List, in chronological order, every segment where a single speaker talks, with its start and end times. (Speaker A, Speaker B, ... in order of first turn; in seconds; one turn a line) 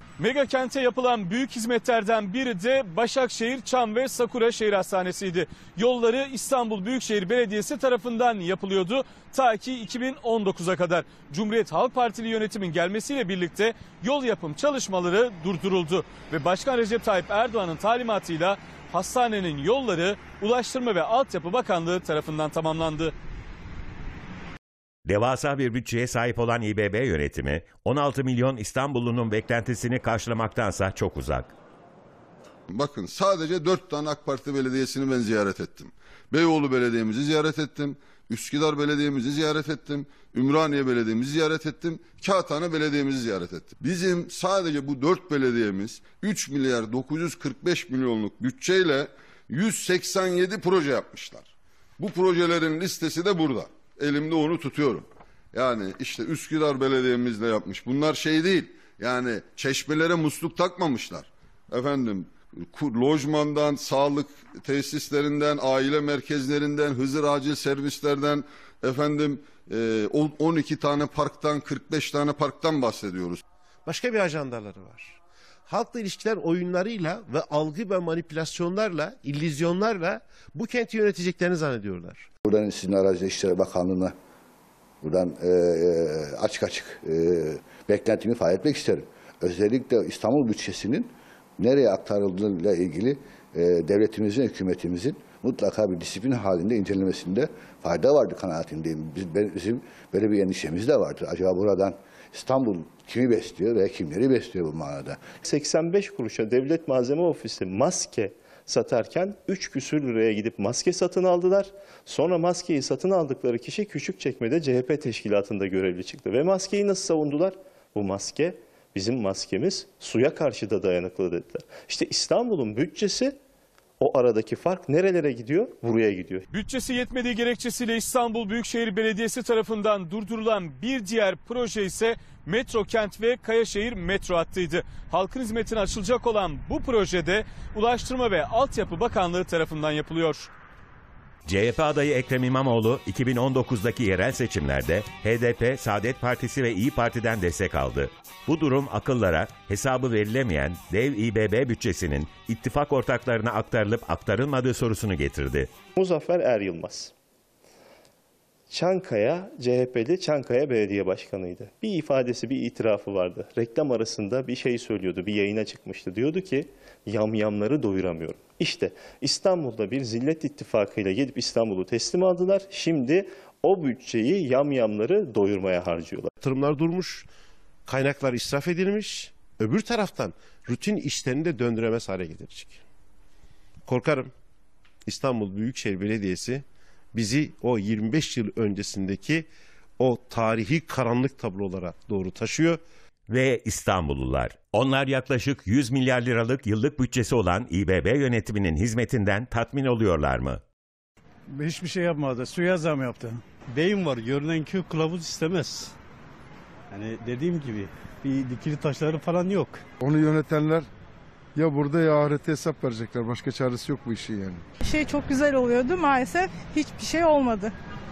Speaker A: 0.2-23.1
Speaker B: 25.1-31.5
Speaker C: 32.7-73.4
Speaker D: 73.8-75.2
Speaker D: 75.7-82.2
Speaker E: 82.4-84.1
Speaker E: 85.0-105.2
Speaker F: 105.4-123.3
Speaker F: 124.0-126.5
Speaker A: 126.5-140.5
Speaker B: 141.4-155.7
Speaker F: 155.9-157.1
Speaker F: 158.7-176.3
Speaker D: 176.4-177.3
Speaker D: 177.8-182.8
Speaker D: 183.8-184.3
Speaker D: 185.1-189.5
Speaker D: 190.0-192.8
Speaker B: 193.3-200.6
Speaker G: 203.7-205.9
Speaker G: 206.9-209.8
Speaker H: 210.0-210.9
Speaker H: 211.5-214.6
Speaker I: 214.8-217.7